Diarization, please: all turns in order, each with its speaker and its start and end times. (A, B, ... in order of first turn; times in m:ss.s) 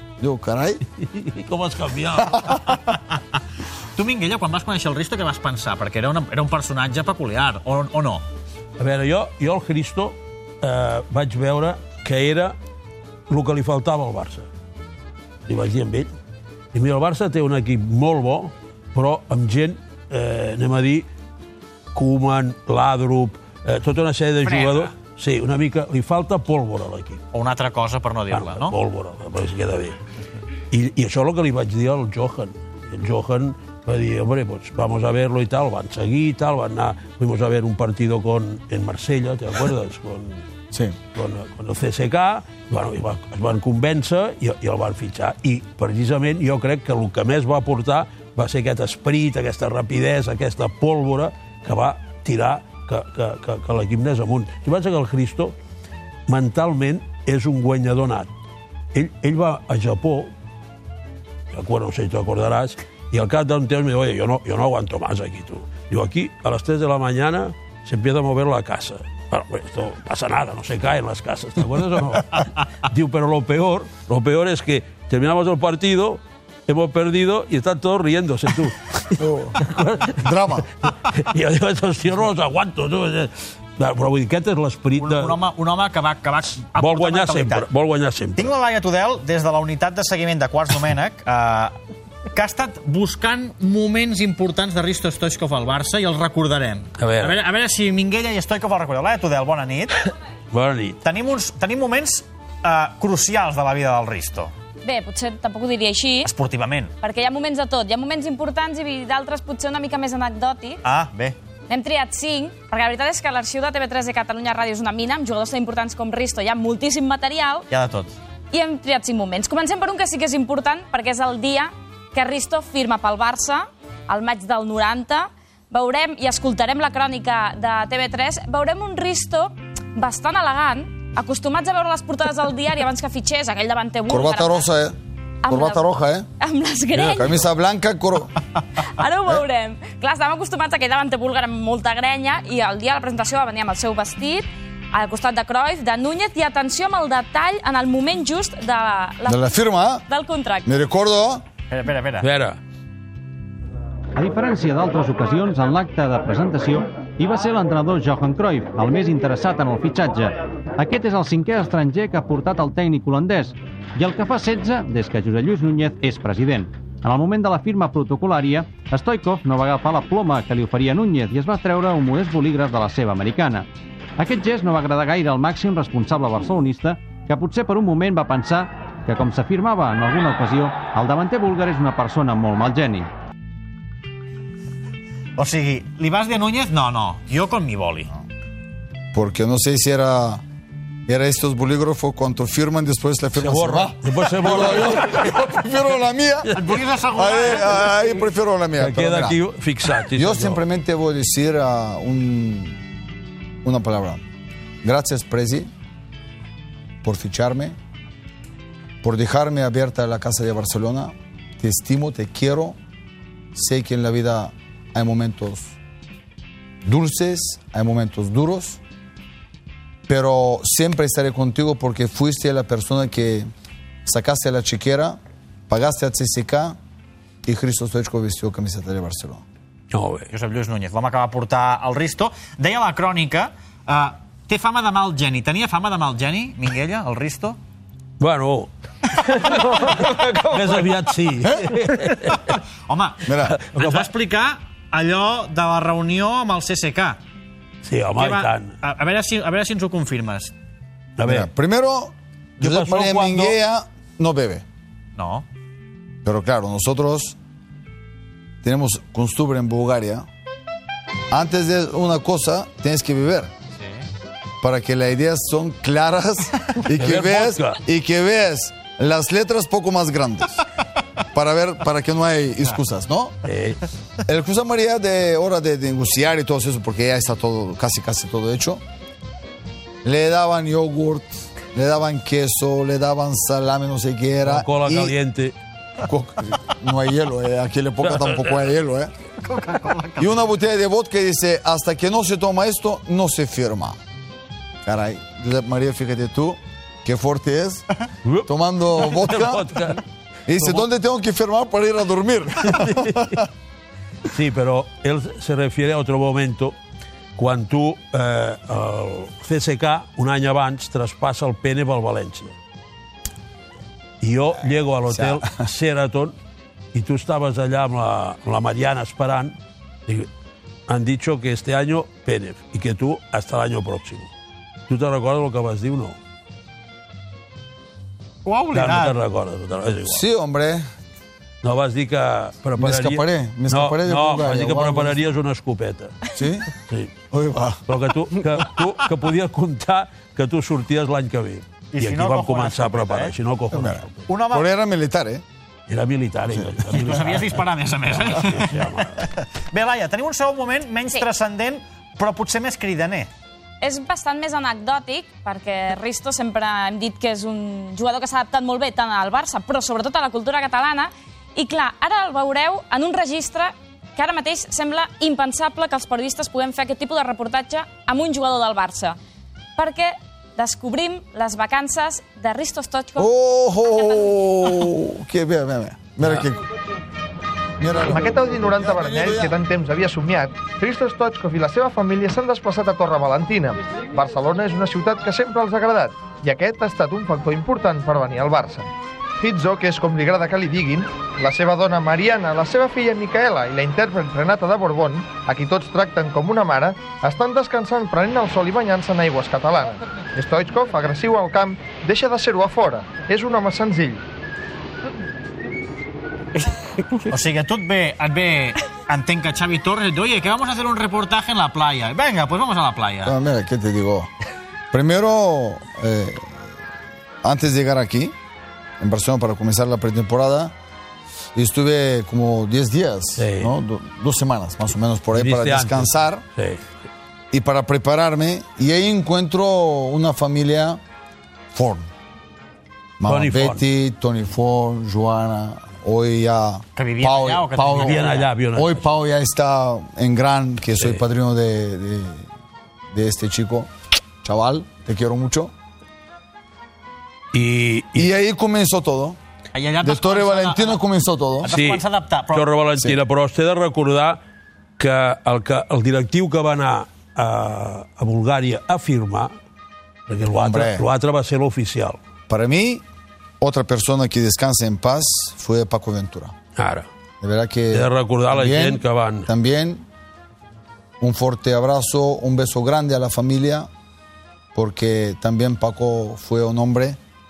0:00.2-0:00.8 A
0:01.0-0:02.6 B
0:02.2-0:02.7 A
0:04.0-0:08.2 C
0:08.8-0:12.6 B
0:13.3-0:14.5 B
0:15.5-0:16.1 B
0:16.7-0:21.1 B
0:21.9-0:27.2 B
0:24.4-0:24.9 C
0:27.3-0:28.7 C
0:28.3-0:30.0 B
0:30.7-0:40.4 B
0:40.7-0:41.0 A
0:41.2-0:55.6 B
0:56.3-0:58.3 B
0:58.9-1:00.3 B
1:01.5-1:25.4 B
1:19.2-1:20.7 A
1:25.0-1:27.7 C
1:26.8-1:28.5 B
1:28.4-1:40.1 C
1:37.0-1:37.4 B
1:40.5-1:41.0 B
1:41.0-1:44.5 C
1:44.8-1:46.3 D
1:46.2-1:46.9 C
1:47.0-1:50.8 D
1:50.8-1:51.4 C
1:51.7-1:57.7 D
1:57.7-1:58.2 C
1:58.5-2:14.7 D
2:14.1-2:15.0 A
2:15.4-2:15.8 D
2:15.5-2:16.3 A
2:16.4-2:17.4 D
2:16.9-2:18.3 A
2:18.8-2:29.4 D
2:29.3-2:30.0 A
2:30.1-2:30.7 D
2:30.7-2:31.4 A
2:31.7-2:32.3 C
2:32.2-2:32.6 B
2:34.2-2:53.7 E
2:54.2-3:03.1 E
3:05.4-3:08.1 C
3:09.1-3:10.4 A
3:11.1-3:16.5 A
3:13.4-3:15.5 B
3:16.6-3:18.1 C
3:17.1-3:19.4 A
3:18.8-3:20.6 B
3:20.0-3:22.8 A
3:23.6-3:24.2 A
3:24.8-3:25.7 A
3:27.0-3:27.8 A
3:29.0-3:32.8 A
3:33.5-3:35.8 A
3:36.8-3:38.8 A
3:40.1-3:43.5 A
3:44.0-3:46.8 A
3:47.4-3:49.4 A
3:49.9-3:50.3 B
3:50.3-3:57.6 C
3:58.2-3:58.7 B
3:59.3-4:02.6 B
4:01.4-4:01.8 A
4:02.9-4:07.2 C
4:03.3-4:03.6 A
4:03.5-4:04.1 B
4:07.8-4:08.7 B
4:08.2-4:10.5 C
4:11.2-4:11.5 B
4:11.2-4:14.6 A
4:12.6-4:13.6 B
4:15.2-4:15.5 C
4:16.2-4:17.4 A
4:18.6-4:20.3 A
4:21.3-4:23.5 A
4:23.8-4:24.1 C
4:24.6-4:30.6 A
4:26.9-4:27.8 B
4:31.3-4:33.4 A
4:33.4-4:33.8 B
4:34.3-4:38.8 A
4:40.0-4:45.2 A
4:44.4-4:45.6 B
4:46.0-4:49.1 A
4:48.0-4:48.6 B
4:49.4-4:50.4 C
4:50.2-4:54.0 A
4:54.8-4:57.9 A
4:58.2-5:00.0 B
4:58.4-5:03.5 A
5:00.6-5:00.9 B
5:02.7-5:03.4 B
5:04.3-5:06.8 B
5:07.4-5:12.5 B
5:14.2-5:16.3 B
5:15.1-5:15.5 A
5:16.9-5:19.6 B
5:20.9-5:24.3 B
5:24.9-5:26.2 B
5:28.4-5:29.2 C
5:28.7-5:30.2 B
5:30.0-5:30.9 A
5:31.6-5:36.2 B
5:32.8-5:35.3 A
5:36.4-5:36.7 A
5:37.3-5:37.8 A
5:37.9-5:44.2 B
5:41.9-5:43.3 C
5:43.7-5:45.4 A
5:44.3-5:44.6 C
5:45.9-5:49.2 B
5:46.9-5:53.3 C
5:53.8-6:09.2 D
6:09.8-6:13.3 D
6:13.2-6:16.6 A
6:13.9-6:14.4 D
6:17.8-6:19.6 A
6:18.0-6:28.9 F
6:29.4-6:44.2 F
6:46.6-6:53.4 C
6:53.2-6:54.3 A
6:54.9-6:56.6 A
6:57.4-6:58.3 A
6:59.0-7:00.7 A
7:01.6-7:06.4 A
7:03.4-7:03.7 B
7:05.3-7:06.8 B
7:07.5-7:11.0 A
7:11.7-7:12.1 A
7:13.2-7:22.5 A
7:13.3-7:13.8 B
7:17.0-7:18.5 C
7:18.0-7:19.0 B
7:23.1-7:25.7 A
7:27.5-7:28.3 B
7:28.2-7:29.4 A
7:29.7-7:31.0 C
7:30.0-7:31.7 A
7:31.6-7:32.7 C
7:31.7-7:34.4 B
7:35.0-7:39.5 B
7:40.3-7:42.2 B
7:40.5-7:41.1 A
7:42.5-7:43.0 A
7:43.6-7:46.5 A
7:46.8-7:47.1 B
7:47.4-7:50.0 A
7:47.9-7:49.5 B
7:51.2-7:53.9 A
7:54.8-7:57.2 A